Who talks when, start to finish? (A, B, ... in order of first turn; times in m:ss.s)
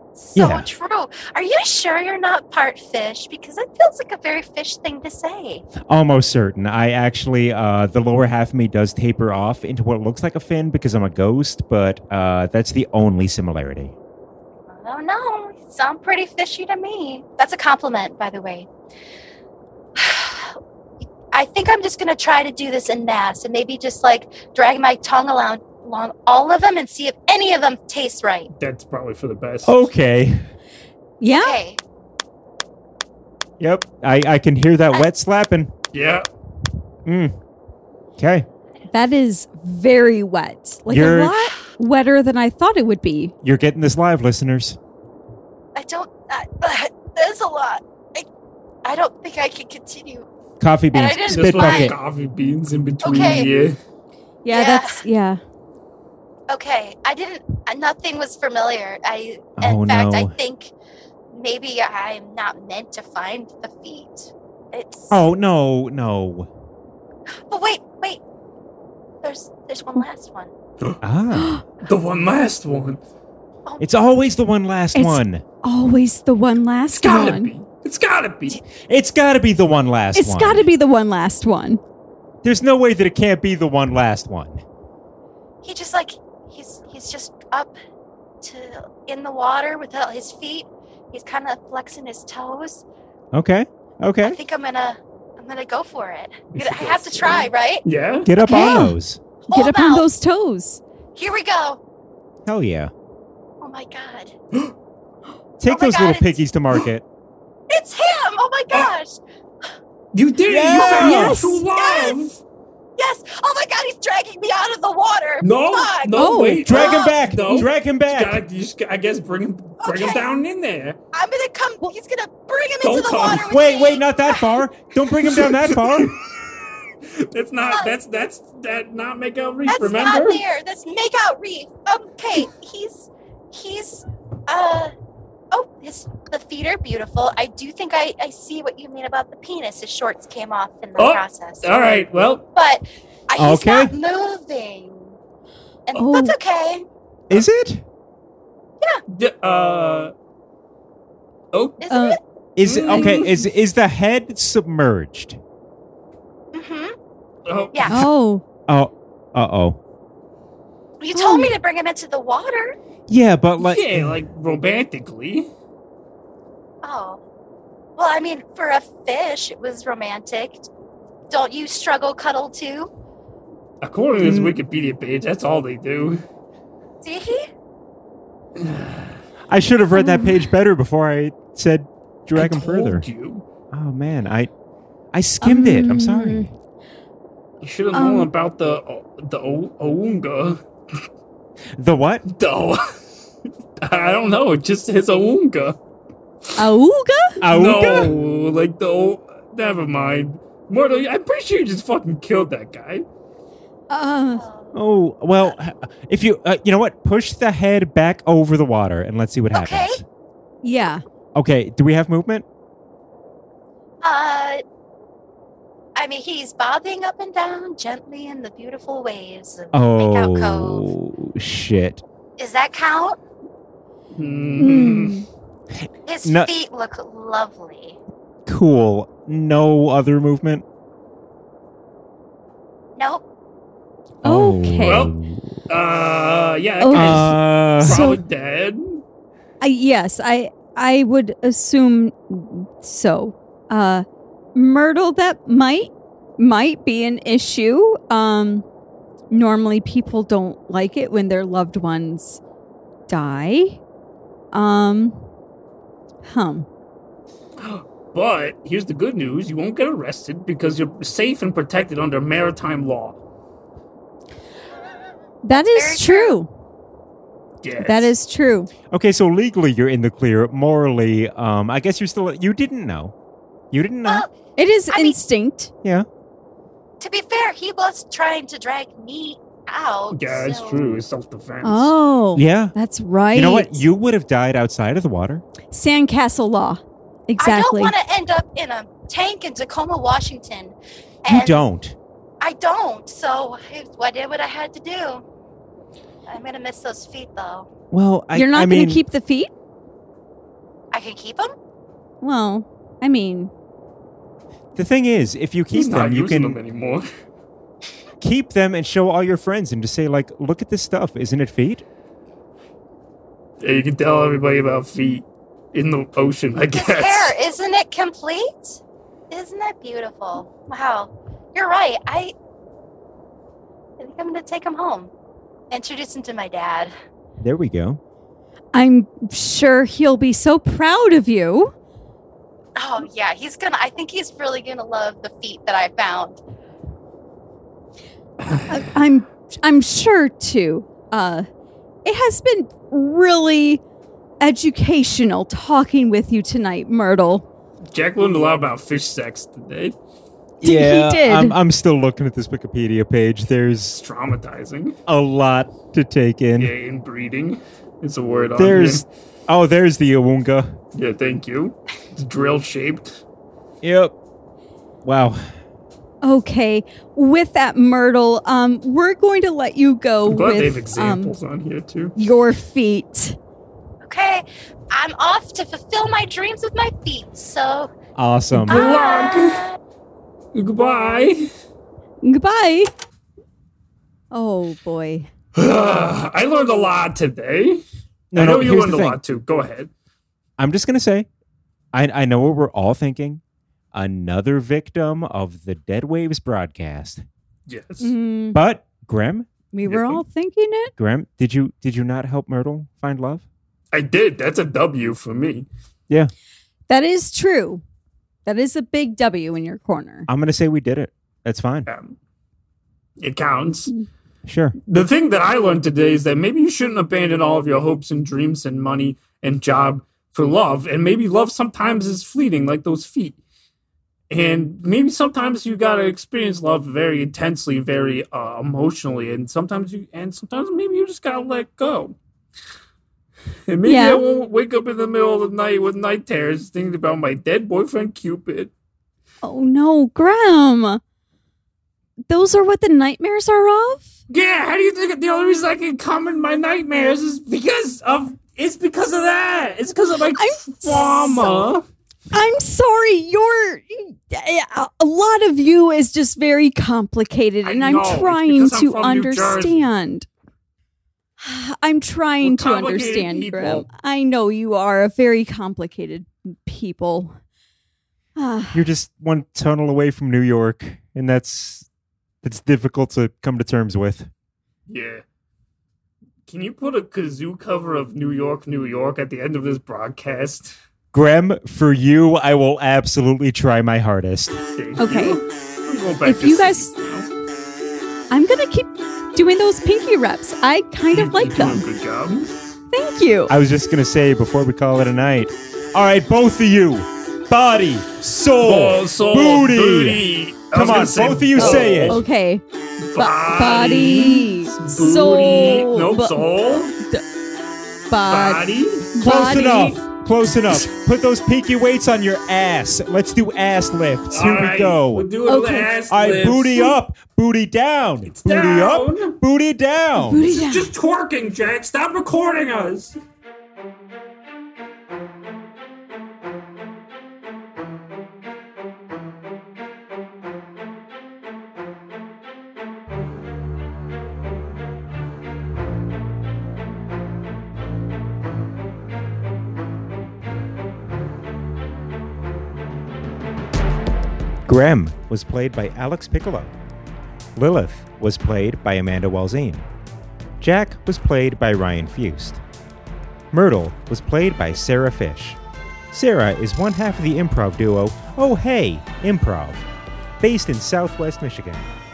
0:00.2-0:05.7 A
0:00.4-0:00.7 B
0:05.8-0:13.9 B
0:14.7-0:18.7 A
0:20.0-0:20.5 A
0:21.3-0:28.5 A
0:28.6-0:29.8 C
0:29.6-0:30.5 B
0:31.2-0:31.6 D
0:31.3-0:31.8 A
0:33.6-0:35.7 B
0:35.9-0:36.3 C
0:37.1-0:37.4 B
0:38.2-0:38.5 B
0:38.9-0:43.3 D
0:40.9-0:41.4 B
0:43.4-0:44.8 B
0:45.8-0:48.3 A
0:48.8-0:50.3 A
0:50.6-0:52.0 B
0:50.9-0:51.9 A
0:51.3-0:53.8 C
0:53.0-0:53.5 A
0:54.4-0:55.4 D
0:54.5-0:55.0 A
0:56.5-1:00.7 A
0:59.6-1:00.3 B
1:01.3-1:05.2 A
1:05.1-1:06.5 B
1:07.5-1:08.2 A
1:09.2-1:10.5 A
1:11.0-1:11.6 B
1:11.4-1:11.6 D
1:11.8-1:13.0 C
1:13.8-1:15.4 B
1:15.0-1:17.5 D
1:17.0-1:18.6 C
1:18.9-1:20.7 B
1:20.2-1:21.8 D
1:22.4-1:24.6 B
1:25.6-1:27.7 A
1:28.4-1:32.8 A
1:33.3-1:34.4 B
1:34.2-1:37.8 A
1:36.5-1:38.3 C
1:38.2-1:39.2 B
1:38.4-1:38.9 A
1:38.4-1:39.0 D
1:39.4-1:40.1 A
1:39.5-1:40.8 D
1:41.2-1:41.8 A
1:42.4-1:42.9 B
1:43.6-1:44.3 A
1:45.6-1:47.0 B
1:45.7-1:46.4 A
1:47.7-1:49.2 A
1:50.1-1:52.4 C
1:50.5-1:51.4 B
1:50.8-1:51.1 A
1:51.0-1:51.6 D
1:51.7-1:52.2 A
1:53.0-1:57.2 A
1:55.4-2:01.0 C
1:56.2-1:56.7 D
1:56.6-1:58.4 B
1:59.8-2:00.2 A
2:01.1-2:04.6 A
2:02.8-2:03.5 C
2:03.5-2:06.2 B
2:05.2-2:10.4 C
2:07.6-2:07.9 A
2:09.7-2:14.9 A
2:15.5-2:21.8 A
2:21.0-2:22.4 C
2:22.5-2:25.2 A
2:23.4-2:23.9 B
2:25.9-2:26.9 A
2:26.0-2:26.4 D
2:27.3-2:27.8 B
2:29.1-2:30.1 C
2:31.5-2:31.8 C
2:31.8-2:32.2 A
2:31.9-2:32.2 D
2:32.6-2:35.4 B
2:32.6-2:33.4 C
2:32.9-2:33.4 D
2:36.5-2:37.0 A
2:37.5-2:37.9 C
2:37.7-2:38.0 A
2:37.9-2:38.4 D
2:38.7-2:39.8 B
2:41.0-2:42.8 A
2:41.2-2:41.6 D
2:43.1-2:44.2 B
2:43.6-2:45.5 C
2:46.8-2:47.2 A
2:48.0-2:50.7 A
2:51.3-2:52.9 A
2:53.8-2:56.2 C
2:54.2-2:54.6 B
2:57.0-2:57.5 A
2:58.6-2:59.2 C
2:59.5-3:03.0 B
3:00.0-3:00.5 D
3:02.4-3:03.4 C
3:03.7-3:04.5 B
3:05.1-3:06.5 B
3:05.4-3:06.5 D
3:07.6-3:10.6 C
3:07.9-3:08.3 D
3:11.8-3:12.2 B
3:12.3-3:12.8 C
3:13.8-3:15.8 C
3:16.6-3:17.4 D
3:17.4-3:18.2 B
3:17.5-3:23.1 C
3:23.9-3:24.4 D
3:24.3-3:24.8 A
3:24.7-3:30.0 B
3:29.5-3:30.0 A
3:30.6-3:31.0 D
3:31.4-3:32.4 B
3:34.0-3:34.6 A
3:36.0-3:40.9 A
3:39.7-3:42.0 B
3:42.4-3:43.2 A
3:44.2-3:45.2 C
3:44.6-3:45.2 D
3:46.1-3:48.0 A
3:46.2-3:46.5 B
3:48.5-3:50.6 B
3:53.0-3:53.2 A
3:54.2-3:55.6 B
3:54.2-3:55.1 D
3:54.8-3:55.1 C
3:55.7-3:59.0 C
3:56.8-3:58.2 D
3:56.9-3:58.1 B
3:59.6-4:08.6 D
4:09.3-4:12.4 D
4:13.1-4:13.8 D
4:14.5-4:15.2 D
4:16.2-4:16.7 D
4:17.6-4:23.2 C
4:25.4-4:26.5 D
4:25.5-4:26.4 A
4:27.6-4:28.1 C
4:27.8-4:28.7 D
4:28.9-4:33.1 B
4:33.7-4:34.2 B
4:34.6-4:35.7 D
4:34.9-4:35.2 A
4:37.0-4:41.0 A
4:40.1-4:41.9 C
4:41.6-4:43.8 D
4:42.4-4:42.7 B
4:43.3-4:45.4 B
4:45.7-4:47.9 D
4:47.4-4:51.6 A
4:51.3-4:52.0 B
4:52.4-4:55.2 A
4:56.3-4:57.7 A
4:57.9-4:59.0 B
4:58.3-4:59.5 D
5:00.9-5:01.5 A
5:02.2-5:03.5 D
5:04.8-5:06.6 B
5:05.7-5:07.1 C
5:08.2-5:11.8 B
5:13.6-5:17.4 C
5:16.7-5:18.8 A
5:19.3-5:22.3 A
5:24.0-5:25.1 A
5:25.7-5:26.9 A
5:27.4-5:28.0 B
5:28.7-5:31.7 D
5:32.8-5:36.4 A
5:38.4-5:38.9 C
5:38.7-5:41.5 D
5:42.0-5:43.8 D
5:44.4-5:47.4 D
5:47.9-5:50.0 C
5:50.6-5:51.6 D
5:50.6-5:54.0 B
5:53.9-5:55.0 C
5:55.1-5:56.7 B
5:56.6-5:59.0 C
5:58.6-6:00.8 B
6:01.0-6:03.2 C
6:03.8-6:04.2 B
6:05.0-6:05.5 B
6:06.2-6:11.3 D
6:10.3-6:12.2 C
6:12.2-6:13.4 D
6:14.0-6:17.9 A
6:18.2-6:18.8 B
6:18.7-6:19.7 C
6:18.7-6:19.8 A
6:20.5-6:21.4 C
6:22.2-6:22.9 D
6:24.3-6:25.3 D
6:25.6-6:29.9 C
6:28.3-6:29.2 B
6:30.6-6:31.3 B
6:31.9-6:33.4 B
6:33.9-6:37.2 B
6:37.7-6:38.1 C
6:38.0-6:38.6 D
6:38.5-6:40.2 B
6:39.7-6:40.9 D
6:41.0-6:43.4 B
6:43.9-6:45.7 C
6:46.9-6:47.8 D
6:48.5-6:50.3 D
6:50.3-6:51.9 B
6:51.9-6:52.2 C
6:53.2-6:53.9 C
6:54.5-6:54.8 B
6:54.9-7:03.4 C
7:04.3-7:12.2 C
7:13.7-7:18.7 C
7:13.8-7:14.2 D
7:19.4-7:21.0 D
7:22.3-7:24.1 D
7:24.3-7:31.8 C
7:30.4-7:31.7 D
7:32.3-7:40.3 D
7:37.6-7:39.8 C
7:41.4-7:47.4 D
7:42.4-7:43.9 C
7:48.4-7:48.9 D
7:48.7-7:51.9 B
7:52.4-7:54.3 B
7:54.9-7:55.2 C
7:56.5-8:00.8 C
8:01.1-8:04.6 B
8:04.7-8:07.3 C
8:05.0-8:05.4 D
8:06.2-8:06.9 D
8:08.3-8:11.9 D
8:11.1-8:12.5 C
8:12.9-8:13.5 D
8:13.5-8:20.2 B
8:18.6-8:22.2 C
8:20.7-8:22.2 B
8:21.6-8:22.6 D
8:23.1-8:27.0 C
8:23.2-8:27.2 D
8:28.1-8:30.0 D
8:28.3-8:29.8 C
8:29.2-8:35.3 B
8:34.3-8:36.9 C
8:35.5-8:35.9 D
8:36.1-8:40.5 B
8:38.3-8:39.4 C
8:40.2-8:40.9 D
8:40.5-8:43.2 C
9:04.7-9:06.7 B
9:07.6-9:09.8 B
9:10.6-9:12.6 B
9:13.5-9:15.6 B
9:16.1-9:19.9 B
9:20.4-9:21.9 B